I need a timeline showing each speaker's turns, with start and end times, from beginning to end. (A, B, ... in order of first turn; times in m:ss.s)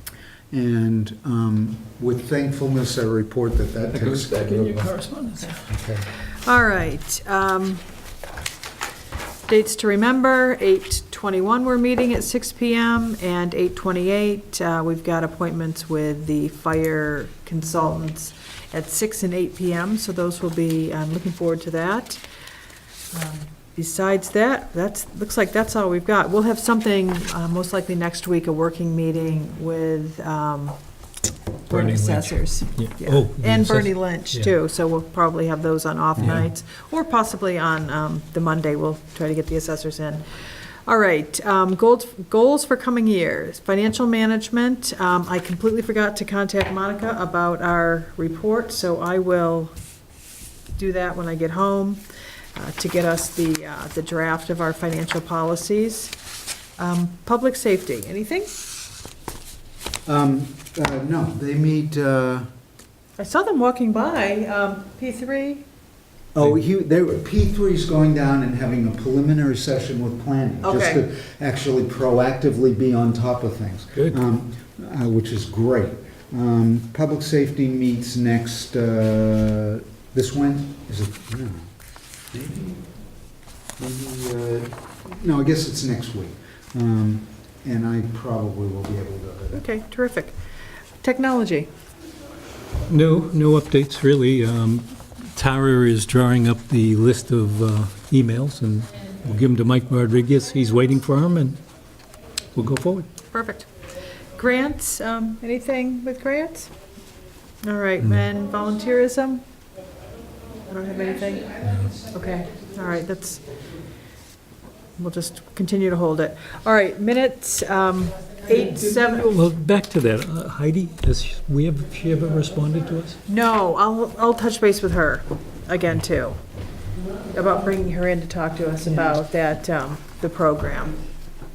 0:00.5-0:05.0 A
0:03.9-0:05.7 B
0:05.7-0:06.1 A
0:06.3-0:07.8 C
0:09.5-0:22.2 C
0:23.1-0:30.8 C
0:31.7-0:40.2 C
0:31.7-0:34.5 B
0:36.2-0:36.4 A
0:40.9-0:49.7 C
0:50.8-0:52.0 C
0:52.6-0:56.1 C
0:56.8-0:58.5 C
1:00.1-1:02.5 A
1:03.2-1:05.7 C
1:06.4-1:21.7 A
1:10.6-1:11.0 C
1:22.3-1:22.8 A
1:23.8-1:29.6 A
1:29.5-1:30.4 C
1:31.0-1:31.7 C
1:32.9-1:41.6 B
1:42.6-1:43.1 B
1:43.3-1:43.7 C
1:44.4-1:46.7 C
1:47.6-1:49.4 C
1:48.0-1:48.3 B
1:50.7-1:53.4 C
1:55.0-1:59.4 C
1:58.5-2:03.2 B
2:03.3-2:06.4 C
2:07.3-2:11.0 C
2:08.8-2:09.2 A